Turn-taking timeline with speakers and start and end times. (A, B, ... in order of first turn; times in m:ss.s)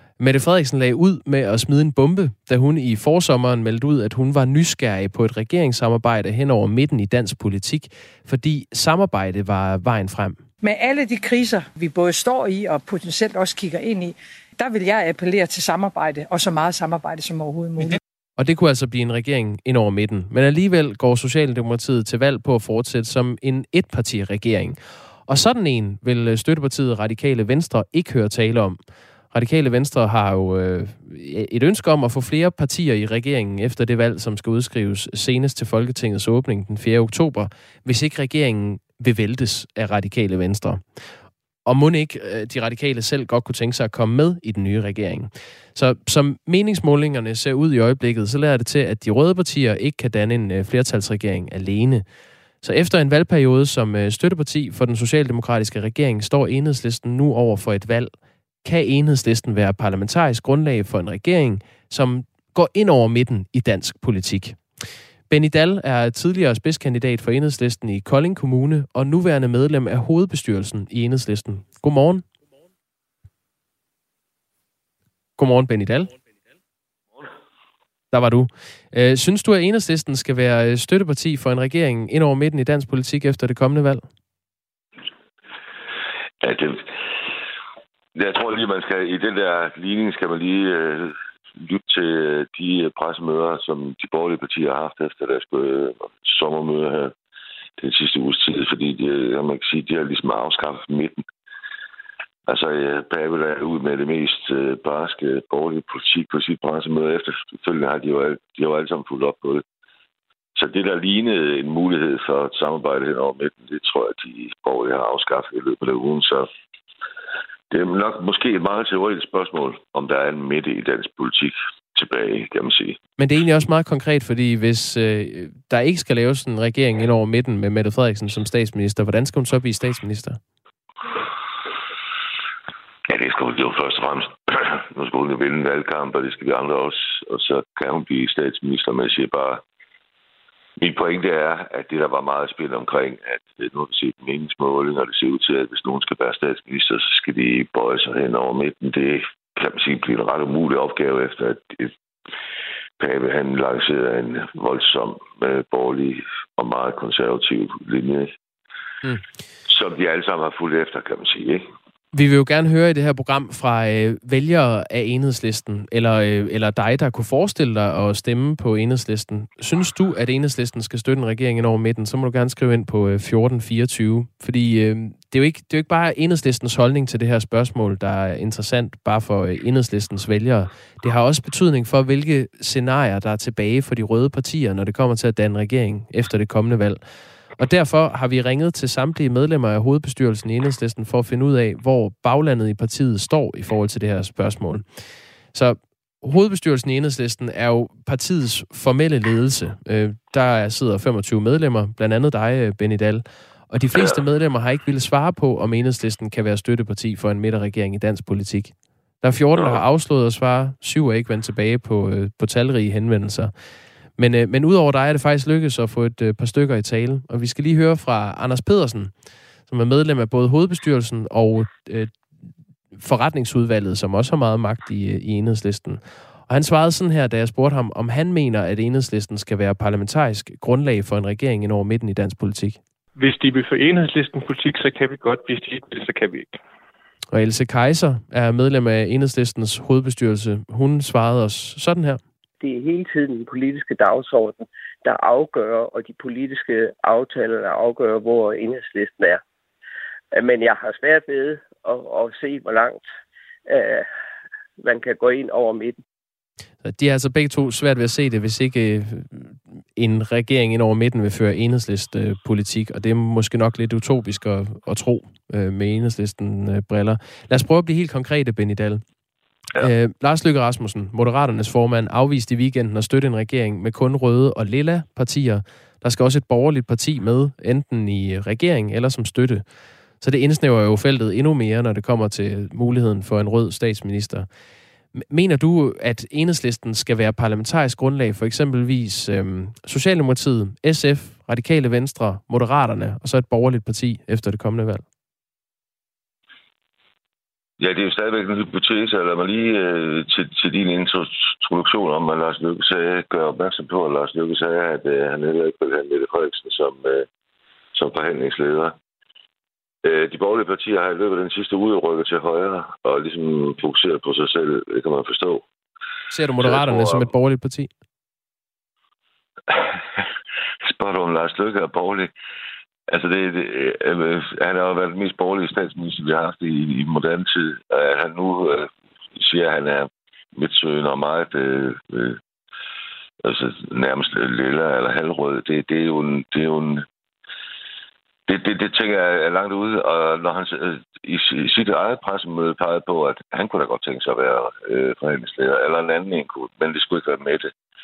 0:00.2-0:10.4 A
0:10.6-0:18.0 B
0:18.4-0:28.8 A
0:29.3-0:40.8 A
0:41.7-0:52.0 A
0:52.6-0:58.1 A
0:58.6-1:04.6 A
1:05.3-1:12.2 A
1:15.4-1:16.1 A
1:18.1-1:24.0 A
1:26.4-1:26.9 C
1:28.2-1:37.1 C
1:37.8-1:41.2 C
1:42.5-1:49.6 C
1:50.6-1:56.5 C
1:57.7-2:03.0 C
2:03.2-2:10.4 A
2:13.1-2:19.6 C
2:20.8-2:31.9 C
2:33.0-2:38.3 C
2:39.7-2:41.6 C
2:42.1-3:07.0 A
3:07.6-3:14.8 A
3:15.5-3:33.5 A
3:23.9-3:24.2 C
3:29.6-3:29.8 C
3:34.2-3:39.1 A
3:39.7-3:42.1 A
3:42.9-3:52.8 A
3:53.2-3:56.6 D
3:57.3-4:02.2 A
4:02.6-4:09.4 E
4:10.3-4:13.1 E
4:13.7-4:14.1 E
4:14.8-4:16.0 E
4:16.8-4:29.0 A
4:29.8-4:39.6 A
4:40.2-4:44.5 A
4:45.1-4:55.0 A
4:57.8-5:07.3 C
5:08.0-5:09.0 C
5:10.0-5:15.6 C
5:16.3-5:17.9 A
5:16.6-5:17.3 C
5:20.9-5:22.3 C
5:23.1-5:32.4 C
5:33.4-5:37.0 C
5:38.5-5:47.7 C